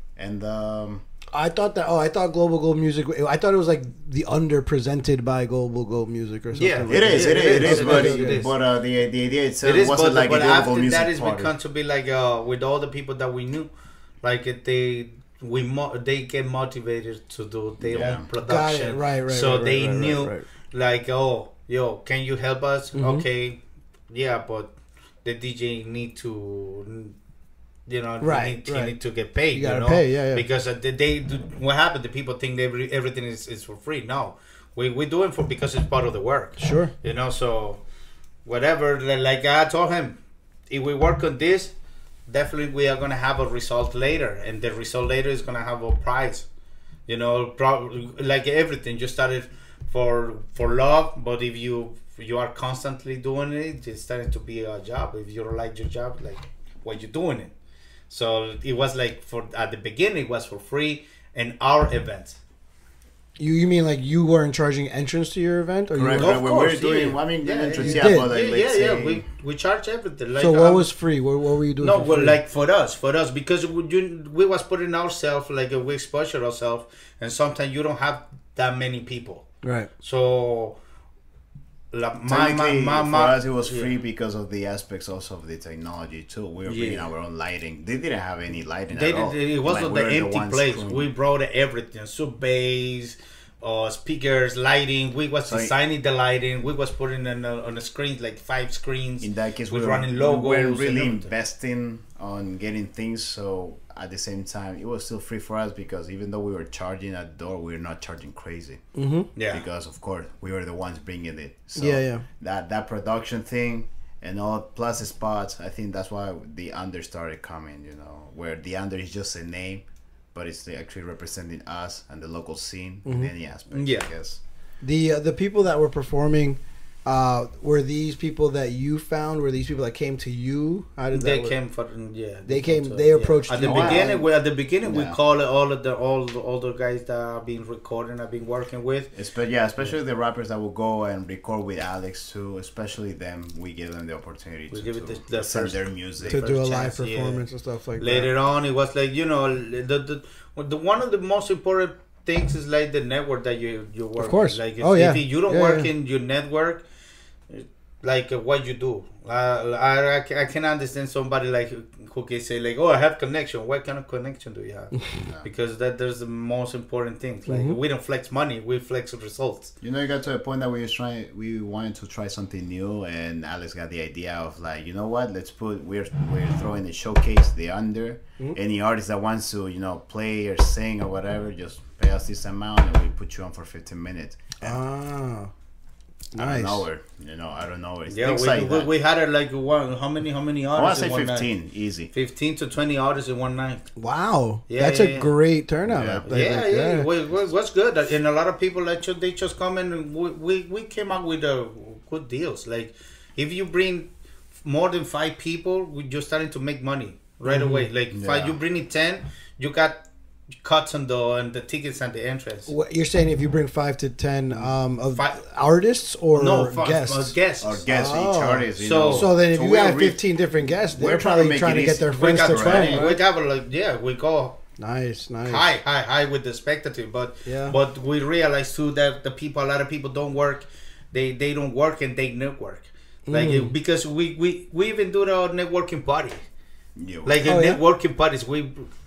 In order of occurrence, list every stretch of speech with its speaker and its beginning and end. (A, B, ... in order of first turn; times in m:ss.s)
0:00.2-0:01.0 A
0:01.3-0:08.4 B
0:06.5-0:08.5 C
0:06.9-0:11.5 A
0:09.6-0:13.7 C
0:14.2-0:27.2 C
0:17.8-0:18.2 A
0:18.0-0:20.4 B
0:22.9-0:23.2 B
0:27.9-0:37.8 C
0:28.2-0:28.9 B
0:29.5-0:30.4 B
0:36.6-0:36.9 B
0:38.4-0:40.2 C
0:40.7-0:41.7 C
0:42.3-0:46.5 C
0:47.1-0:57.5 C
0:58.1-1:02.4 C
1:03.4-1:06.8 B
1:05.9-1:09.2 A
1:06.2-1:10.8 C
1:07.7-1:08.3 B
1:10.4-1:12.4 B
1:11.8-1:19.4 C
1:19.6-1:19.9 B
1:20.0-1:20.8 C
1:21.9-1:23.9 C
1:22.3-1:31.1 A
1:26.6-1:27.1 C
1:28.9-1:41.3 C
1:35.4-1:35.7 A
1:39.2-1:48.8 A
1:48.9-1:49.3 B
1:49.4-1:49.6 C
1:49.5-2:04.4 A
1:51.8-1:52.2 B
2:03.0-2:03.3 B
2:03.7-2:04.1 C
2:04.8-2:11.5 B
2:11.1-2:19.1 C
2:12.4-2:14.2 B
2:13.6-2:14.1 A
2:14.8-2:15.2 A
2:19.1-2:26.5 A
2:24.7-2:27.4 C
2:26.2-2:28.3 B
2:28.0-2:36.8 C
2:34.2-2:35.9 B
2:37.5-2:49.7 C
2:44.9-2:45.2 B
2:45.2-2:45.5 A
2:47.5-2:47.8 B
2:49.8-3:04.8 A
3:04.6-3:05.5 B
3:06.3-3:06.8 B
3:06.4-3:08.9 A
3:08.1-3:11.5 C
3:10.7-3:12.1 A
3:12.1-3:13.8 C
3:14.0-3:17.1 B
3:14.7-3:15.3 C
3:15.8-3:16.6 A
3:16.2-3:30.0 C
3:27.4-3:27.9 B
3:28.1-3:28.6 A
3:30.6-3:32.7 C
3:32.7-3:37.4 B
3:36.3-3:37.8 C
3:37.6-3:40.2 A
3:37.9-3:43.2 B
3:38.8-3:39.3 C
3:40.9-3:43.1 A
3:42.1-3:44.6 C
3:44.8-3:45.7 B
3:45.4-3:56.4 C
3:47.4-3:47.8 B
3:53.3-3:53.7 B
3:57.0-3:57.4 A
3:57.2-3:58.9 C
3:57.4-3:57.8 B